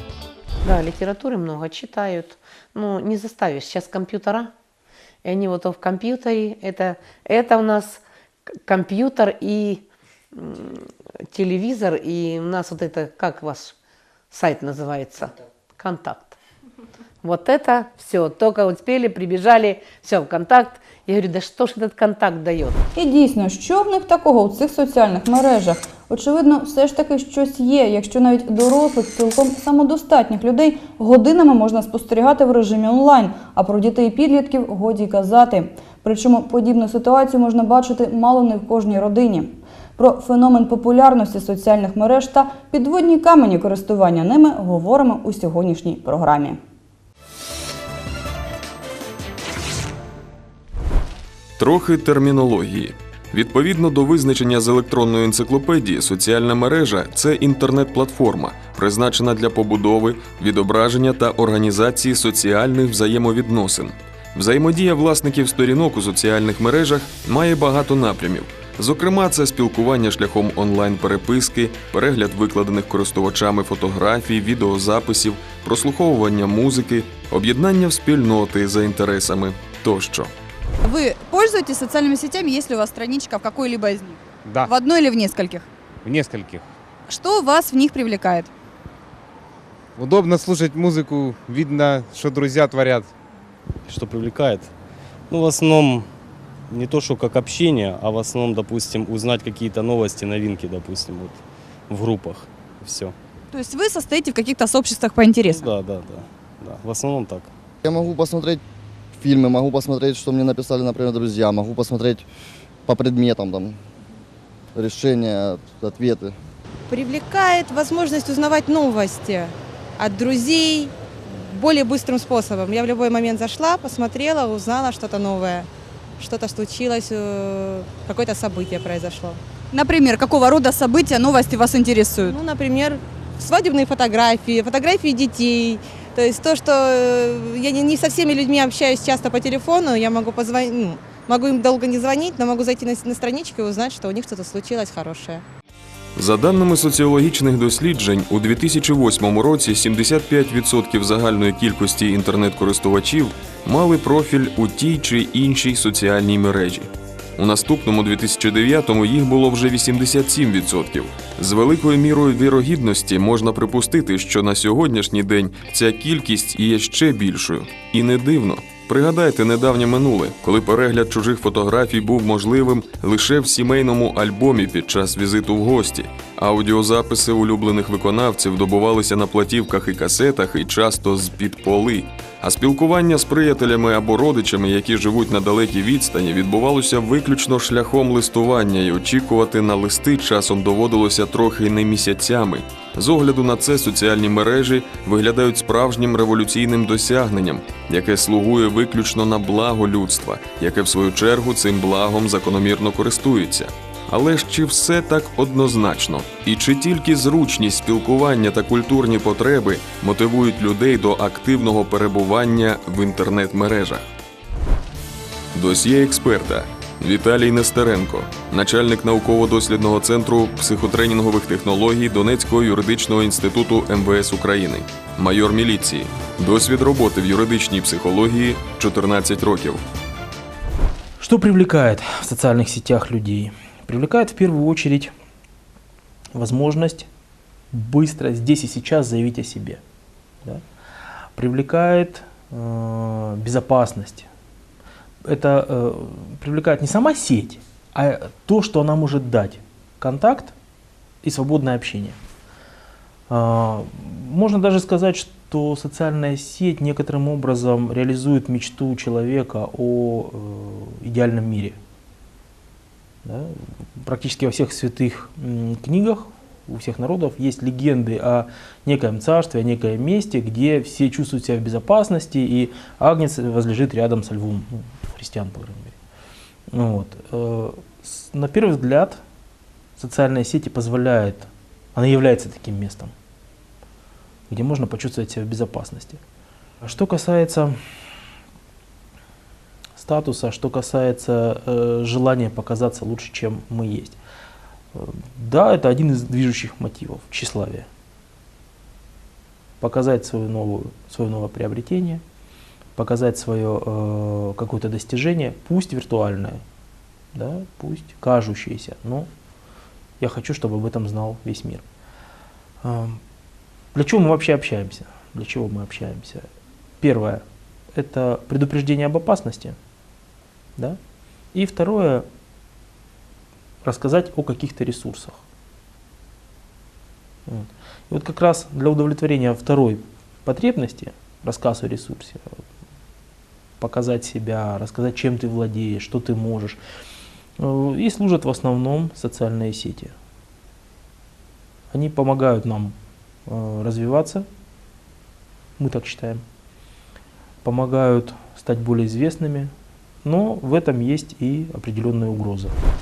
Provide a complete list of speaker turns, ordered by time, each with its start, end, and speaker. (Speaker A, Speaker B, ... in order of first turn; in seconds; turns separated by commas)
Speaker A: 0.6-4.5, Speaker A: 5.2-8.0, Speaker A: 8.5-13.8, Speaker A: 14.3-16.4, Speaker A: 17.2-22.8, Speaker B: 22.9-46.6, Speaker C: 51.6-80.3, Speaker D: 80.8-85.7, Speaker E: 86.0-86.7, Speaker D: 87.1-88.5, Speaker E: 90.0-93.1, Speaker F: 93.9-94.7, Speaker F: 95.3-96.1, Speaker F: 96.7-103.1, Speaker D: 103.5-105.7, Speaker F: 105.5-107.5, Speaker G: 107.8-108.6, Speaker G: 109.2-112.2, Speaker G: 112.8-113.8, Speaker G: 114.7-116.3, Speaker H: 116.9-129.4, Speaker D: 129.7-132.3, Speaker H: 132.2-145.4, Speaker C: 146.2-214.1, Speaker C: 215.5-229.8, Speaker I: 231.2-235.1, Speaker I: 236.3-237.1, Speaker I: 237.7-239.8, Speaker I: 241.3-244.3, Speaker I: 245.2-250.5, Speaker I: 251.2-252.2, Speaker I: 253.3-261.8, Speaker I: 263.2-275.9, Speaker I: 276.7-279.2, Speaker I: 280.0-283.1, Speaker I: 284.5-286.2, Speaker I: 286.8-287.8, Speaker I: 289.9-294.2, Speaker I: 294.9-297.9, Speaker I: 299.8-302.2, Speaker I: 302.9-306.6, Speaker I: 307.3-309.3, Speaker I: 310.2-311.8, Speaker I: 312.8-313.2, Speaker I: 313.9-316.5, Speaker I: 317.0-319.8, Speaker I: 321.5-322.2, Speaker I: 323.8-325.4, Speaker I: 327.5-332.6, Speaker I: 333.8-336.8, Speaker I: 337.6-340.1, Speaker I: 341.9-342.9, Speaker I: 343.5-344.4, Speaker I: 345.8-346.4, Speaker I: 347.6-349.7, Speaker I: 350.2-352.8